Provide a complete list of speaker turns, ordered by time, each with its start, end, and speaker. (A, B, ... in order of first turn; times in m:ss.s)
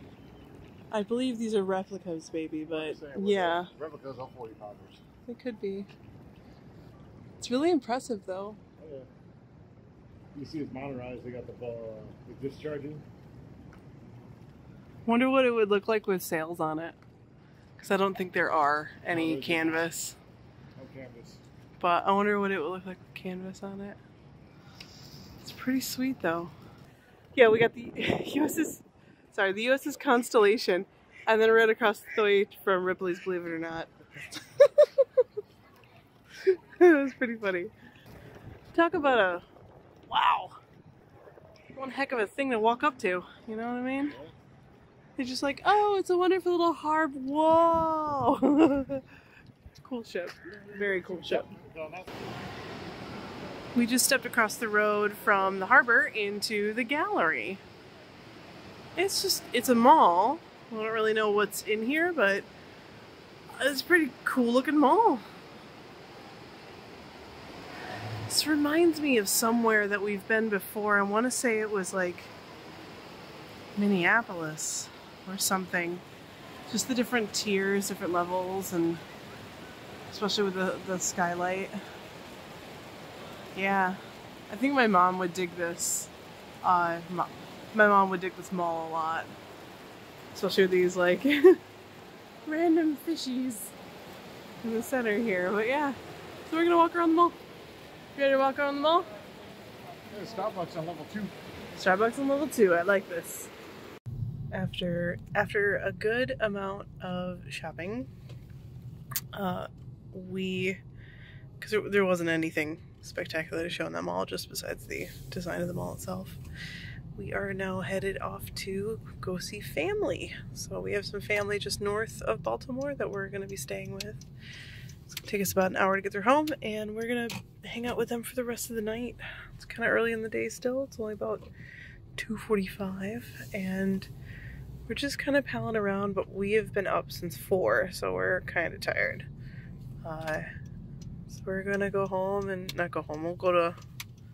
0:00.9-0:03.7 A
0:02.7-0:05.0 B
0:05.3-0:05.9 A
0:07.4-0:08.6 A
0:08.8-0:09.1 B
0:10.3-0:13.0 B
0:15.1-0:17.0 A
0:17.8-0:20.2 A
0:19.1-0:19.9 B
0:20.8-0:21.4 B
0:21.8-0:24.0 A
0:25.4-0:26.5 A
0:27.4-0:35.2 A
0:36.4-0:37.7 A
0:38.7-0:39.5 A
0:40.1-0:40.6 A
0:41.7-0:44.2 A
0:45.2-0:49.1 A
0:49.8-0:51.5 A
0:51.2-0:52.2 B
0:53.8-0:57.6 A
0:59.0-1:02.5 A
1:03.6-1:05.2 A
1:08.3-1:12.3 A
1:13.8-1:16.0 A
1:16.7-1:19.0 A
1:20.1-1:21.8 A
1:23.6-1:26.1 A
1:26.6-1:29.3 A
1:30.3-1:31.6 A
1:32.4-1:33.8 A
1:34.6-1:37.4 A
1:38.2-1:39.1 A
1:40.1-1:41.3 B
1:41.8-1:43.5 A
1:44.5-1:48.1 A
1:49.3-1:50.8 A
1:51.6-1:56.4 A
1:57.2-2:04.2 A
2:05.1-2:11.5 A
2:12.2-2:14.1 A
2:14.9-2:19.3 A
2:20.0-2:20.5 A
2:21.3-2:23.8 A